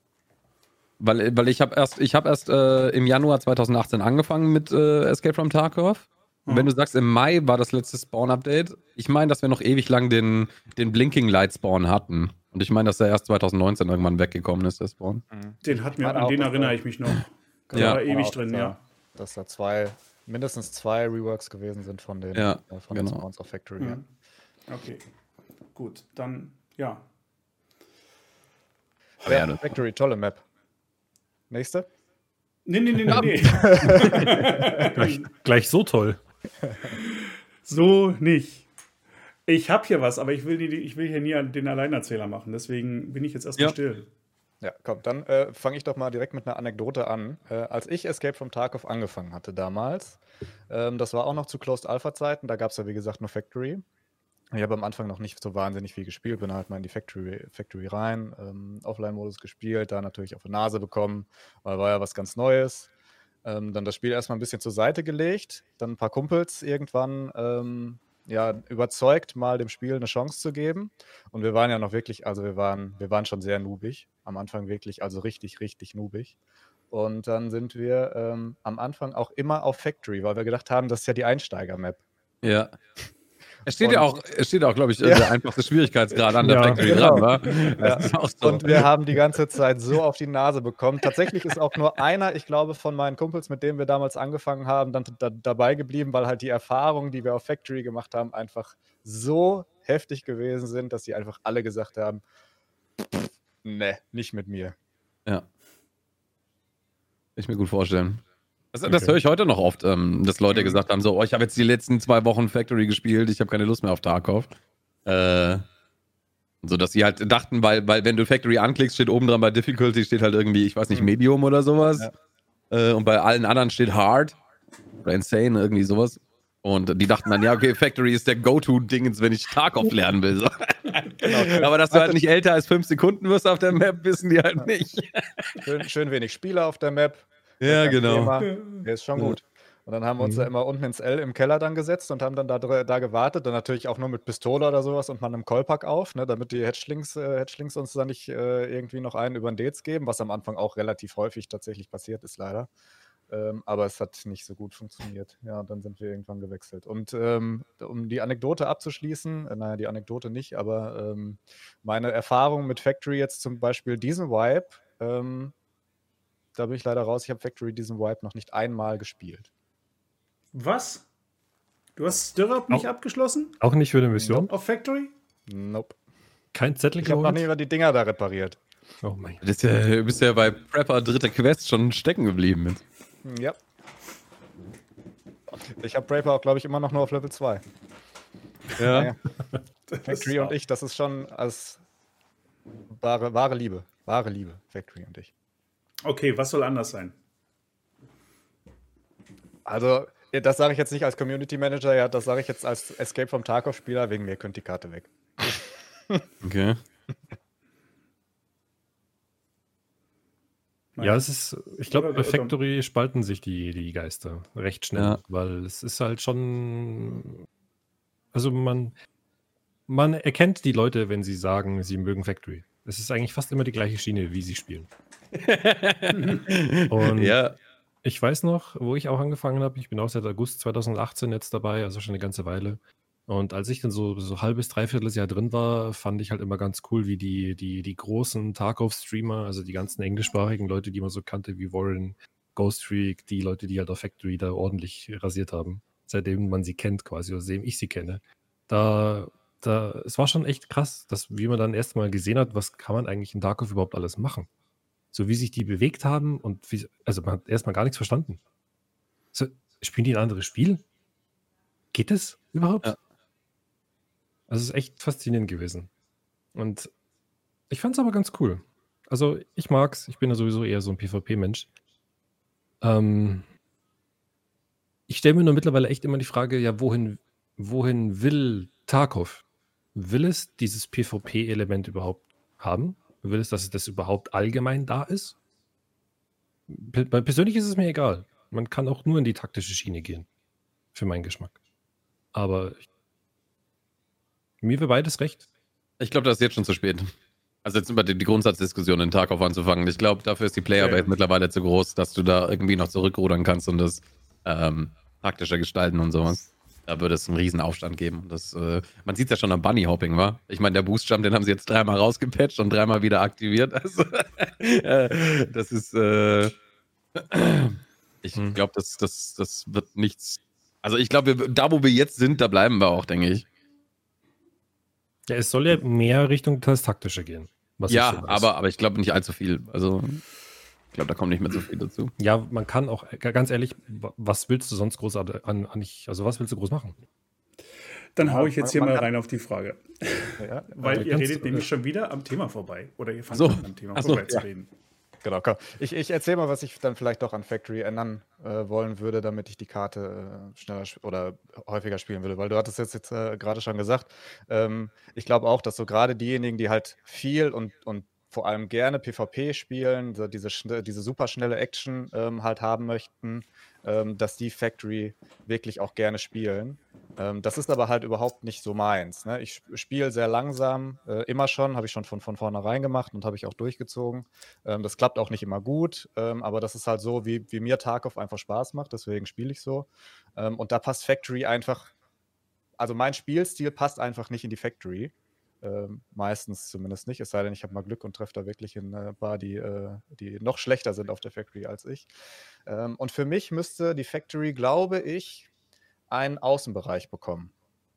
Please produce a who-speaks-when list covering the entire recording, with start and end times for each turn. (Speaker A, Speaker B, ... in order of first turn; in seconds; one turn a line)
Speaker A: 1.0-15.2
Speaker B: 6.5-6.7
Speaker C: 15.3-16.8
Speaker B: 15.6-18.8
Speaker C: 17.7-24.0
Speaker A: 22.3-23.2
Speaker B: 23.8-24.0
Speaker B: 24.7-25.0
Speaker B: 25.7-27.1
Speaker A: 29.2-29.6
Speaker C: 29.2-30.4
Speaker C: 31.5-31.9
Speaker B: 32.6-35.2
Speaker A: 33.1-33.3
Speaker C: 33.4-34.6
Speaker D: 34.2-36.2
Speaker C: 36.6-36.9
Speaker B: 36.9-38.7
Speaker B: 39.5-44.1
Speaker C: 44.6-53.8
Speaker C: 54.5-62.9
Speaker C: 63.4-76.3
Speaker C: 76.9-82.0
Speaker A: 82.4-82.7
Speaker A: 83.7-88.9
Speaker C: 83.7-84.2
Speaker C: 85.0-85.4
Speaker D: 86.4-87.2
Speaker C: 86.8-102.2
Speaker C: 103.0-104.8
Speaker A: 107.3-114.5
Speaker D: 108.8-109.2
Speaker C: 110.5-110.8
Speaker A: 115.0-115.7
Speaker A: 116.6-122.1
Speaker A: 122.7-124.4
Speaker A: 125.0-135.6
Speaker C: 131.2-132.2
Speaker C: 135.6-152.7
Speaker A: 137.6-138.3
Speaker B: 138.4-138.8
Speaker D: 140.2-140.5
Speaker C: 153.3-165.5
Speaker C: 166.6-169.5
Speaker B: 170.5-171.1
Speaker B: 171.9-173.6
Speaker D: 173.6-174.5
Speaker B: 174.2-175.1
Speaker C: 175.5-175.9
Speaker D: 176.5-177.4
Speaker C: 177.0-178.6
Speaker D: 179.0-179.4
Speaker A: 179.4-182.8
Speaker C: 183.2-183.6
Speaker C: 185.6-187.6
Speaker A: 188.8-189.1
Speaker C: 188.8-189.2
Speaker B: 189.9-190.6
Speaker C: 190.0-191.8
Speaker C: 192.9-195.3
Speaker B: 196.0-197.2
Speaker C: 199.7-206.2
Speaker A: 206.4-206.8
Speaker B: 210.9-211.2
Speaker D: 211.0-217.5
Speaker B: 211.9-212.6
Speaker D: 218.3-218.9
Speaker D: 219.9-224.9
Speaker A: 225.3-227.5
Speaker B: 226.2-226.4
Speaker D: 226.9-227.4
Speaker D: 228.0-254.5
Speaker D: 255.1-258.4
Speaker D: 259.3-260.8
Speaker D: 261.9-262.9
Speaker D: 264.5-265.9
Speaker D: 266.5-266.9
Speaker D: 267.7-271.7
Speaker D: 272.8-273.5
Speaker D: 275.1-279.4
Speaker D: 279.9-285.3
Speaker D: 286.7-290.3
Speaker D: 290.9-291.6
Speaker D: 292.3-292.8
Speaker D: 294.6-295.4
Speaker A: 296.0-297.1
Speaker A: 297.6-316.6
Speaker B: 300.8-301.1
Speaker A: 317.1-323.4
Speaker D: 325.3-328.5
Speaker A: 327.9-330.2
Speaker A: 330.9-332.1
Speaker D: 332.2-337.0
Speaker B: 338.1-344.7
Speaker C: 338.2-339.1
Speaker C: 340.4-341.1
Speaker D: 340.9-341.7
Speaker A: 343.3-344.4
Speaker C: 345.2-381.9
Speaker C: 382.8-392.1
Speaker C: 392.6-395.5
Speaker C: 396.1-397.5